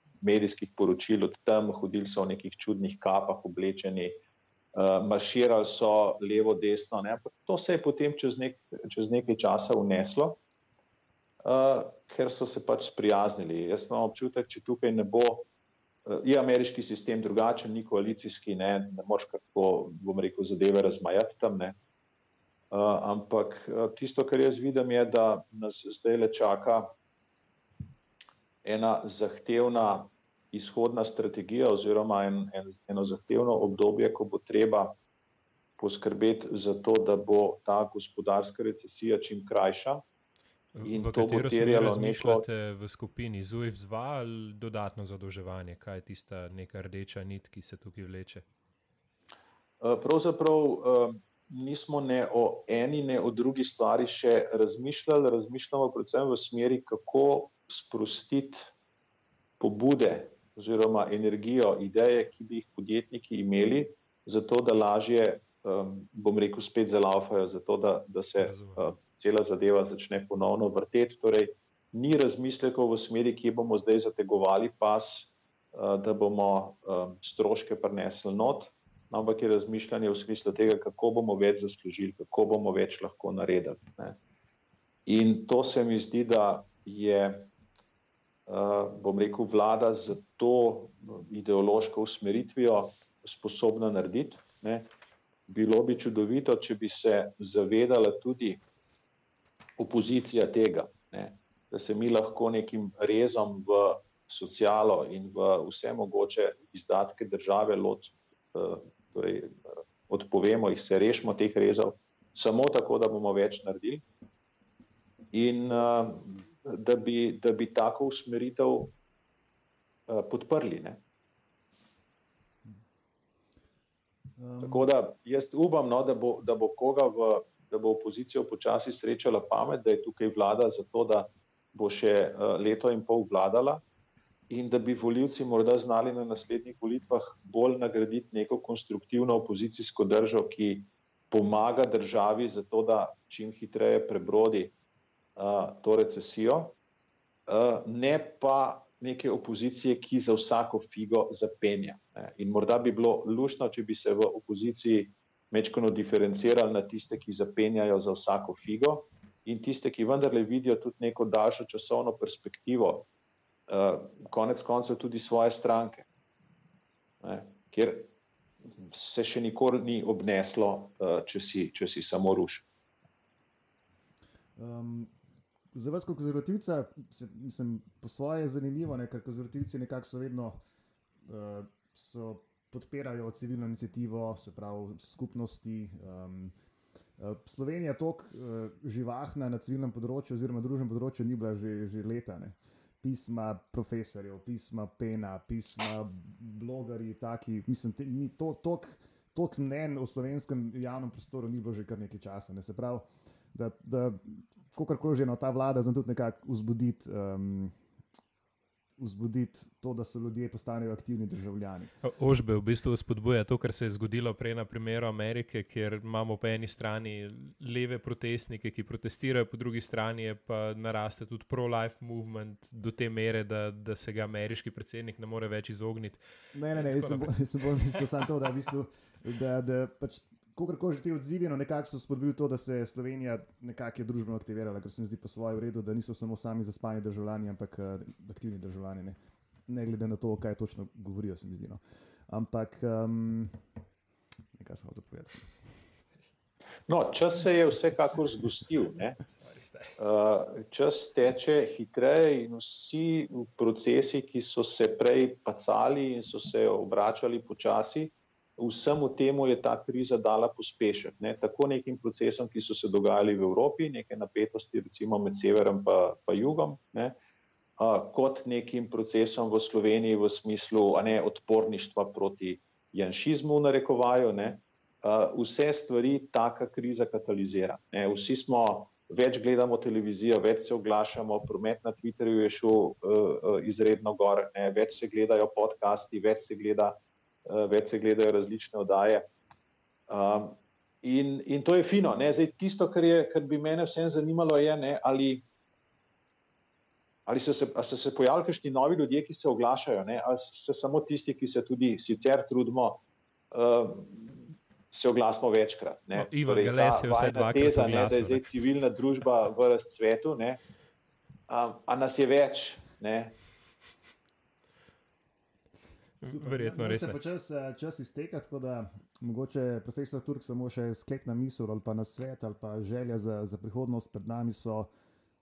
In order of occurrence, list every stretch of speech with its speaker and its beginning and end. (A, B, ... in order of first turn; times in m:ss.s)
0:00.2-0:04.2 A
0:04.7-0:10.4 A
0:11.4-0:15.5 A
0:16.0-0:21.8 A
0:22.7-0:26.9 A
0:28.6-0:35.0 A
0:35.8-0:40.0 A
0:40.7-0:48.4 B
0:40.8-0:42.4 A
0:49.8-0:58.7 A
0:59.6-1:24.2 A
1:08.4-1:08.9 B
1:25.1-1:27.5 A
1:28.5-1:34.9 A
1:35.5-1:38.6 A
1:39.8-1:54.0 A
1:55.3-1:58.9 A
2:00.1-2:01.0 A
2:04.4-2:04.9 C
2:04.6-2:13.8 A
2:14.5-2:24.7 A
2:25.4-2:26.8 A
2:27.5-2:43.1 A
2:43.7-2:46.1 A
2:47.2-2:48.1 A
2:48.8-2:52.6 A
2:54.6-2:55.1 C
2:55.7-3:00.6 C
3:01.2-3:06.5 C
3:07.2-3:27.7 C
3:29.0-3:31.9 C
3:32.0-3:48.1 B
3:46.5-4:03.6 C
4:04.5-4:05.9 C
4:06.9-4:09.2 A
4:09.4-4:10.0 B
4:10.0-4:27.2 A
4:27.8-4:49.3 A
4:50.1-4:55.4 A
4:57.2-5:10.6 A
5:06.1-5:08.7 B
5:11.5-5:13.4 A
5:16.2-5:17.2 B
5:16.2-5:24.9 C